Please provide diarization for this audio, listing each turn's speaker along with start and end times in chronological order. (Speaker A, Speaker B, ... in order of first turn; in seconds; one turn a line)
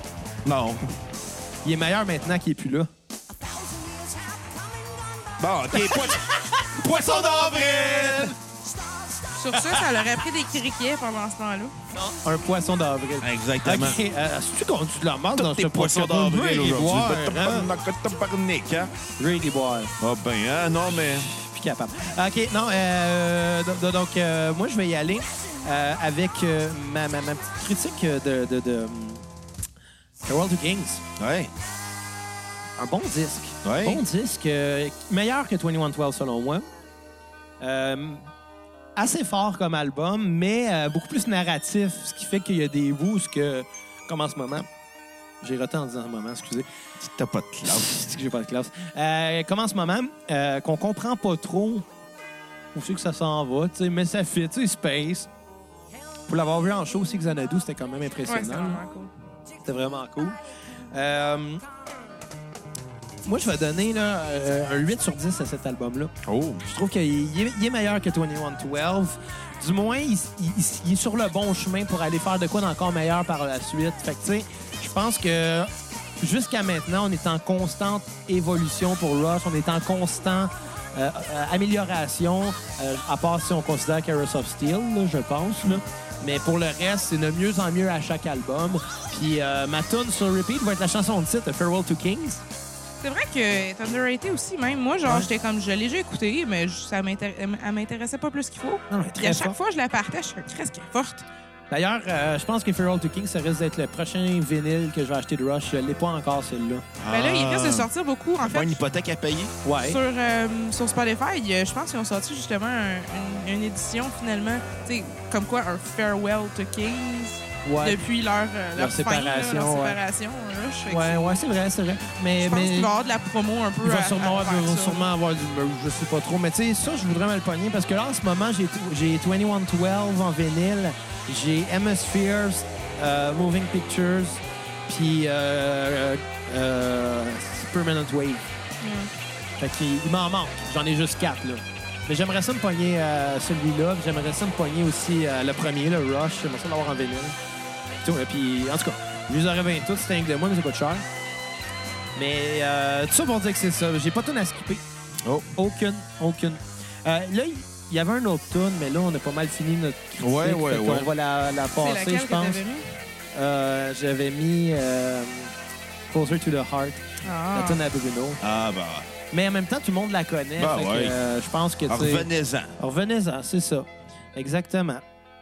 Speaker A: 0.4-0.8
Speaker B: 1.6-2.9
Speaker A: 5.4-6.3
Speaker B: 5.7-8.3
Speaker A: 6.8-8.3
Speaker C: 9.3-11.7
Speaker B: 9.5-9.8
Speaker B: 11.9-17.7
Speaker A: 13.2-14.0
Speaker A: 15.3-18.9
Speaker B: 19.2-19.9
Speaker A: 20.0-21.3
Speaker B: 21.2-29.2
Speaker B: 30.2-31.0
Speaker A: 31.2-31.5
Speaker B: 32.8-36.7
Speaker A: 33.6-34.0
Speaker B: 37.6-38.3
Speaker B: 39.0-44.7
Speaker B: 45.4-46.7
Speaker A: 47.0-48.1
Speaker B: 47.7-51.9
Speaker B: 52.7-55.3
Speaker B: 56.3-58.8
Speaker C: 58.3-59.1
Speaker B: 59.6-60.4
Speaker B: 60.9-61.6
Speaker B: 63.2-66.1
Speaker A: 66.2-66.6
Speaker B: 66.6-92.4
Speaker C: 93.0-101.2
Speaker B: 98.9-99.6
Speaker B: 101.7-106.9
Speaker A: 107.0-107.9
Speaker C: 107.1-108.8
Speaker A: 108.4-109.5
Speaker B: 109.6-110.0
Speaker C: 109.8-121.4
Speaker B: 117.6-118.0
Speaker B: 118.8-120.0
Speaker B: 120.9-122.9
Speaker C: 122.4-125.1
Speaker B: 123.8-138.5
Speaker C: 138.8-139.1
Speaker B: 139.6-147.4
Speaker B: 148.0-151.1
Speaker B: 152.2-154.8
Speaker B: 155.6-162.6
Speaker A: 160.2-161.1
Speaker C: 161.8-162.9
Speaker B: 163.3-165.5
Speaker B: 166.1-168.4
Speaker C: 167.2-167.8
Speaker A: 168.4-169.1
Speaker B: 169.3-175.0
Speaker A: 170.6-171.2
Speaker A: 171.9-172.8